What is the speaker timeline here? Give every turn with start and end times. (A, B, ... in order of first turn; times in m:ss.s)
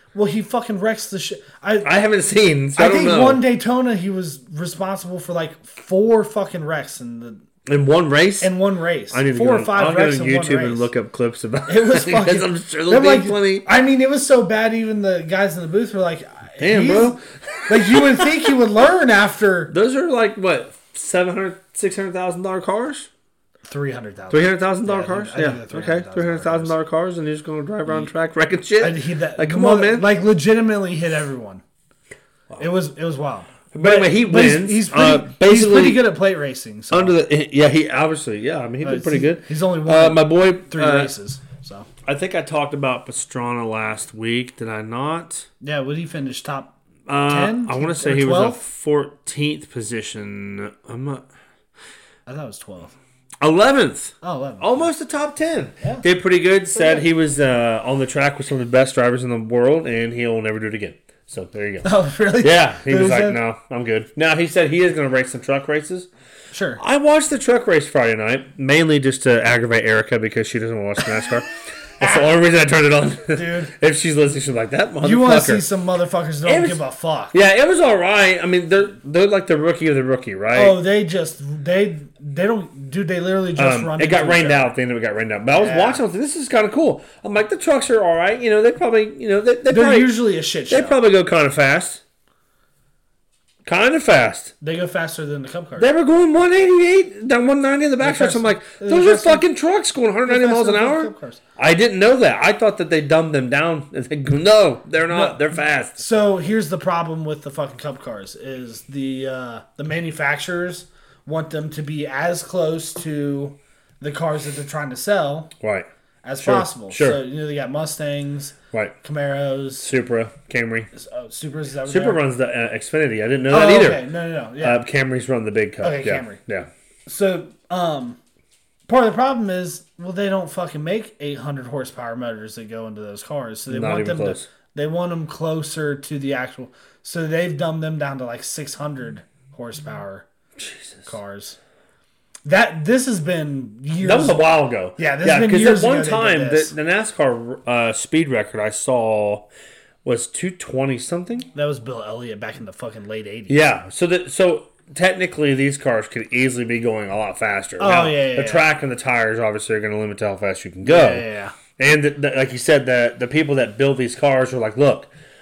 0:00.1-0:01.9 A
0:01.8-0:03.4 B
0:02.8-0:07.4 A
0:07.6-0:08.5 B
0:08.4-0:10.9 A
0:09.1-0:13.6 B
0:11.6-0:19.7 A
0:16.6-0:18.6 B
0:19.7-0:23.1 B
0:23.6-0:26.7 A
0:24.3-0:30.1 B
0:28.8-0:31.6 A
0:32.6-0:37.2 A
0:33.7-0:36.1 B
0:36.9-0:41.1 B
0:38.8-0:41.9 A
0:42.0-0:45.5 B
0:45.6-0:48.6 A
0:47.1-0:51.2 B
0:52.2-0:52.9 A
0:53.4-1:01.9 B
0:54.2-0:54.9 A
1:01.8-1:03.4 A
1:02.4-1:06.1 B
1:06.5-1:06.8 A
1:06.8-1:15.6 B
1:12.0-1:12.3 A
1:13.3-1:13.7 A
1:15.0-1:17.4 A
1:16.4-1:20.8 B
1:20.5-1:24.7 A
1:23.6-1:32.0 B
1:25.5-1:26.0 A
1:29.7-1:31.0 A
1:33.6-1:34.5 B
1:34.6-1:35.9 A
1:35.8-1:46.0 B
1:38.0-1:39.4 A
1:40.3-1:41.4 A
1:45.1-1:55.5 A
1:55.6-1:55.9 B
1:56.2-1:59.9 A
1:56.4-1:57.2 B
1:59.8-2:00.9 B
2:00.9-2:02.2 A
2:01.8-2:04.1 B
2:03.5-2:04.8 A
2:04.6-2:06.7 B
2:05.8-2:06.4 A
2:07.1-2:08.2 A
2:08.9-2:20.2 A
2:13.7-2:14.5 B
2:20.6-2:21.1 B
2:21.0-2:21.6 A
2:22.4-2:24.4 A
2:24.0-2:29.5 B
2:25.0-2:26.7 A
2:30.0-2:31.5 B
2:31.5-2:33.6 A
2:33.5-2:41.2 B
2:37.8-2:38.7 A
2:40.8-2:41.5 A
2:41.8-2:45.1 B